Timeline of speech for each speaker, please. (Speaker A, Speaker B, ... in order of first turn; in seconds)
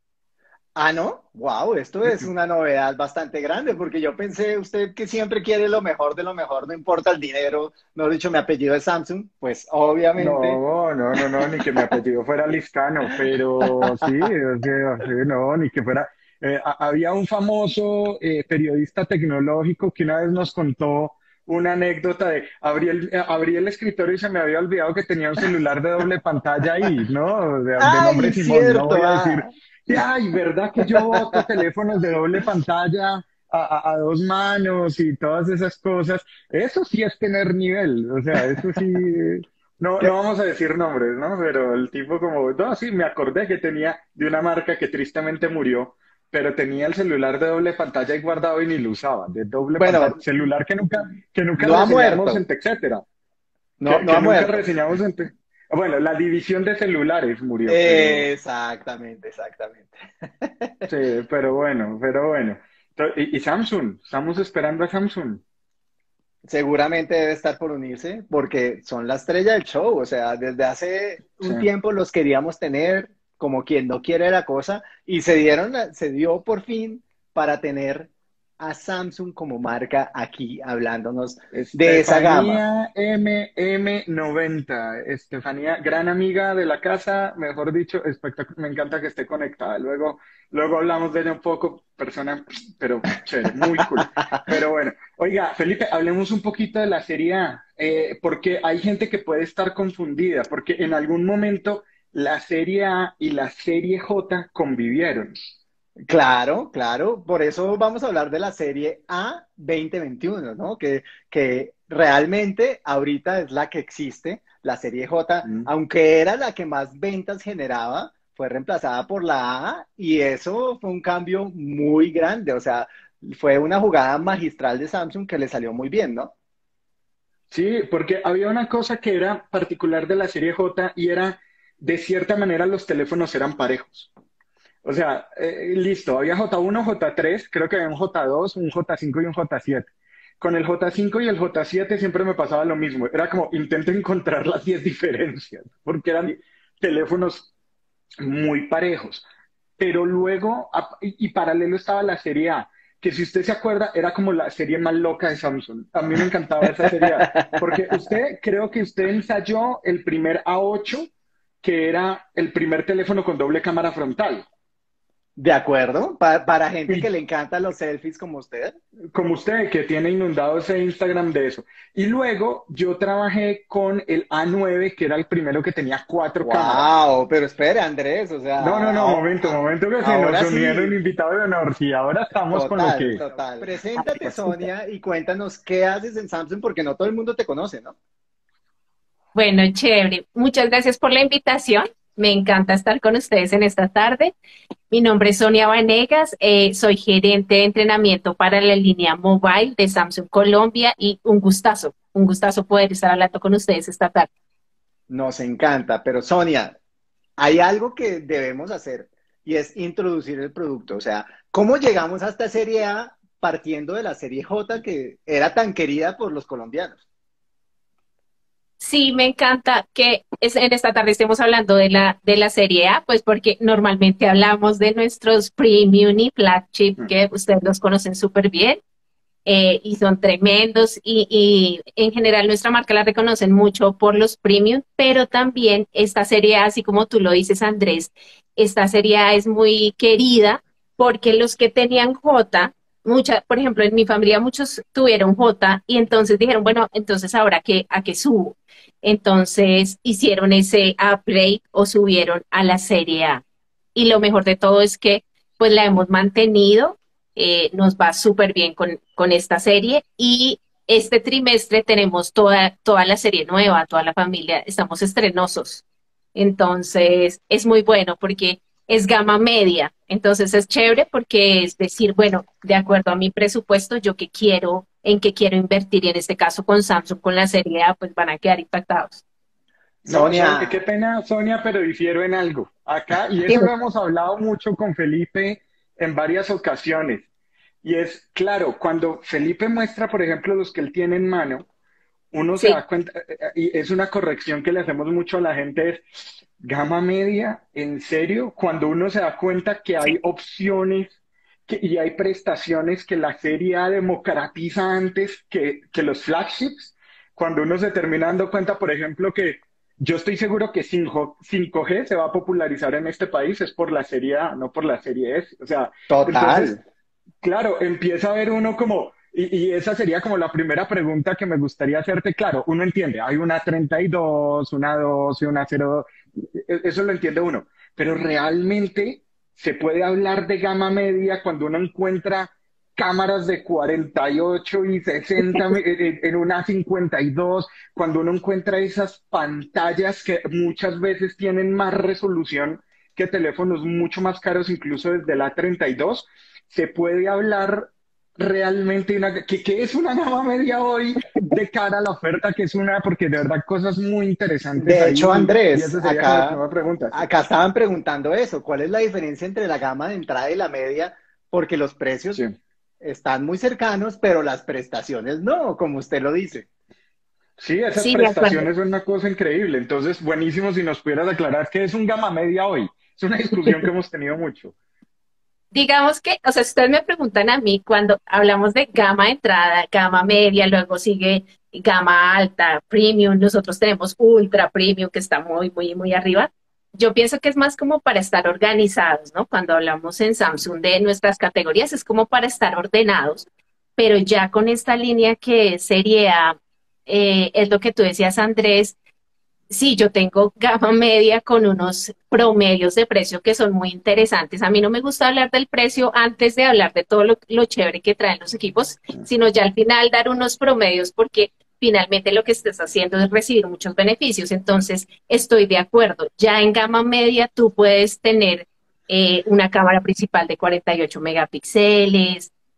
Speaker A: 0.8-10.6, 11.2-11.9, 13.6-14.3, 27.8-29.5, 30.8-31.4, 38.4-38.8, 49.8-50.2, 51.6-52.4, 53.8-54.6, 57.7-60.9, 66.5-82.6, 93.8-94.5, 106.1-126.3, 156.8-157.8, 165.4-168.8, 176.4-180.9, 182.5-187.9, 205.1-206.8, 207.4-217.0, 280.1-280.8, 316.1-316.8, 354.8-356.6, 357.1-362.4, 363.0-366.7
Speaker B: 10.2-53.0, 53.9-58.3, 60.9-65.4, 71.4-71.7, 81.5-105.5, 115.4-115.7, 127.5-134.1, 134.8-139.9, 140.4-147.5, 148.2-149.2, 149.8-161.1, 161.6-164.4, 169.1-176.9, 178.6-183.2, 280.0-287.2, 287.8-291.6, 292.3-296.0, 296.6-301.1, 301.7-316.8, 317.4-357.2, 367.6-374.7
Speaker C: 183.9-184.7, 189.3-194.3, 194.9-204.3, 218.8-228.8, 229.4-253.4, 253.9-265.8, 266.3-279.2, 368.0-368.7, 375.7-396.6, 397.1-398.9, 399.7-422.5